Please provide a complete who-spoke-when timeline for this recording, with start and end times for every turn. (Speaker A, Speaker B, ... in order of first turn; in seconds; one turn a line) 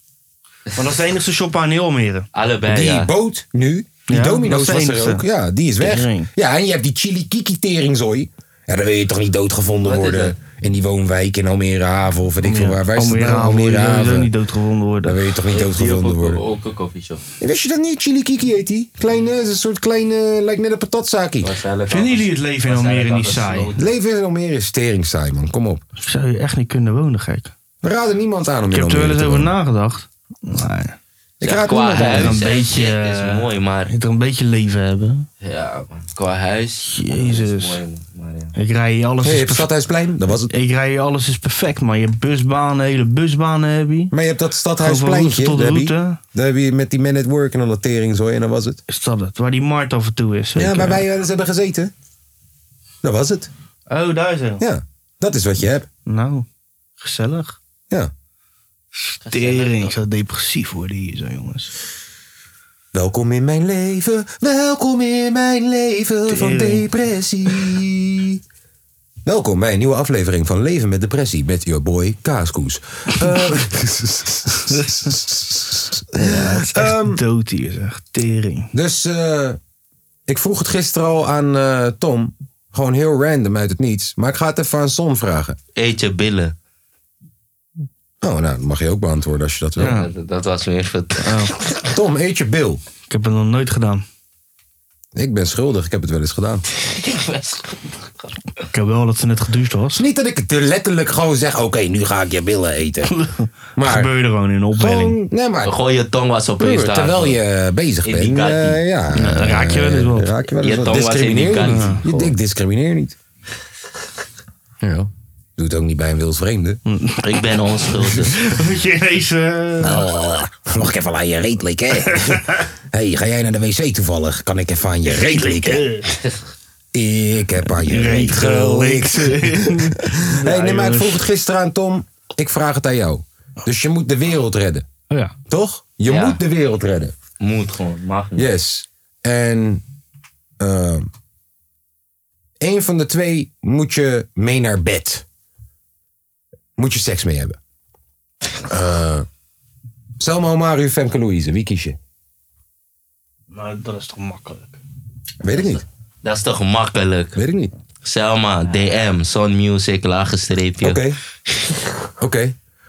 Speaker A: 0.8-2.3
Speaker B: 2.3-3.1
Speaker C: 2.7-14.3
Speaker A: 4.1-5.2
Speaker A: 5.8-6.3
Speaker B: 9.8-10.3
Speaker A: 12.4-15.2
Speaker C: 15.0-16.4
Speaker B: 15.5-17.2
Speaker C: 17.4-21.5
Speaker B: 21.4-23.9
Speaker A: 21.9-23.7
Speaker C: 23.8-25.8
Speaker A: 26.0-27.5
Speaker C: 27.8-29.6
Speaker A: 28.7-31.0
Speaker C: 31.4-32.4
Speaker B: 31.4-33.9
Speaker A: 32.0-35.3
Speaker B: 35.4-38.5
Speaker A: 36.8-37.8
Speaker A: 38.5-39.7
Speaker C: 39.2-40.5
Speaker A: 40.5-44.1
Speaker C: 44.1-48.8
Speaker A: 44.8-46.2
Speaker A: 48.9-51.0
Speaker C: 50.6-51.9
Speaker C: 53.0-53.5
Speaker A: 53.9-54.6
Speaker C: 54.6-55.9
Speaker A: 56.1-56.5
Speaker A: 57.0-57.6
Speaker A: 59.0-61.7
Speaker B: 59.2-59.9
Speaker C: 62.9-68.4
Speaker A: 66.3-66.9
Speaker C: 69.2-77.2
Speaker A: 74.7-75.1
Speaker A: 76.2-78.7
Speaker C: 78.7-79.6
Speaker C: 80.3-85.6
Speaker B: 85.8-86.5
Speaker C: 88.2-90.0
Speaker B: 89.8-91.8
Speaker A: 89.8-90.1
Speaker A: 91.2-91.5
Speaker C: 91.9-92.8
Speaker A: 93.1-94.0
Speaker C: 95.2-96.6
Speaker B: 96.7-98.2
Speaker A: 98.7-100.0
Speaker C: 100.0-103.1
Speaker A: 103.0-105.2
Speaker C: 103.8-104.1
Speaker C: 104.7-105.7
Speaker B: 105.6-107.4
Speaker C: 106.6-113.2
Speaker B: 108.0-108.8
Speaker A: 109.2-110.3
Speaker B: 110.6-112.3
Speaker A: 111.7-112.0
Speaker C: 114.8-116.8
Speaker A: 116.9-117.2
Speaker B: 117.2-118.4
Speaker A: 118.1-120.0
Speaker C: 119.8-125.9
Speaker A: 122.1-122.6
Speaker A: 125.1-126.1
Speaker C: 126.9-134.9
Speaker A: 127.8-131.2
Speaker A: 135.1-135.3
Speaker C: 135.5-137.2
Speaker B: 136.1-136.4
Speaker B: 137.4-138.5
Speaker C: 138.4-139.8
Speaker C: 140.6-141.1
Speaker C: 142.6-145.2
Speaker C: 146.8-147.6
Speaker C: 148.7-149.3
Speaker C: 150.2-152.0
Speaker A: 153.5-154.8
Speaker C: 155.4-155.8
Speaker B: 155.5-157.4
Speaker C: 157.4-157.7
Speaker B: 158.0-161.0
Speaker C: 160.8-161.2
Speaker C: 162.2-162.6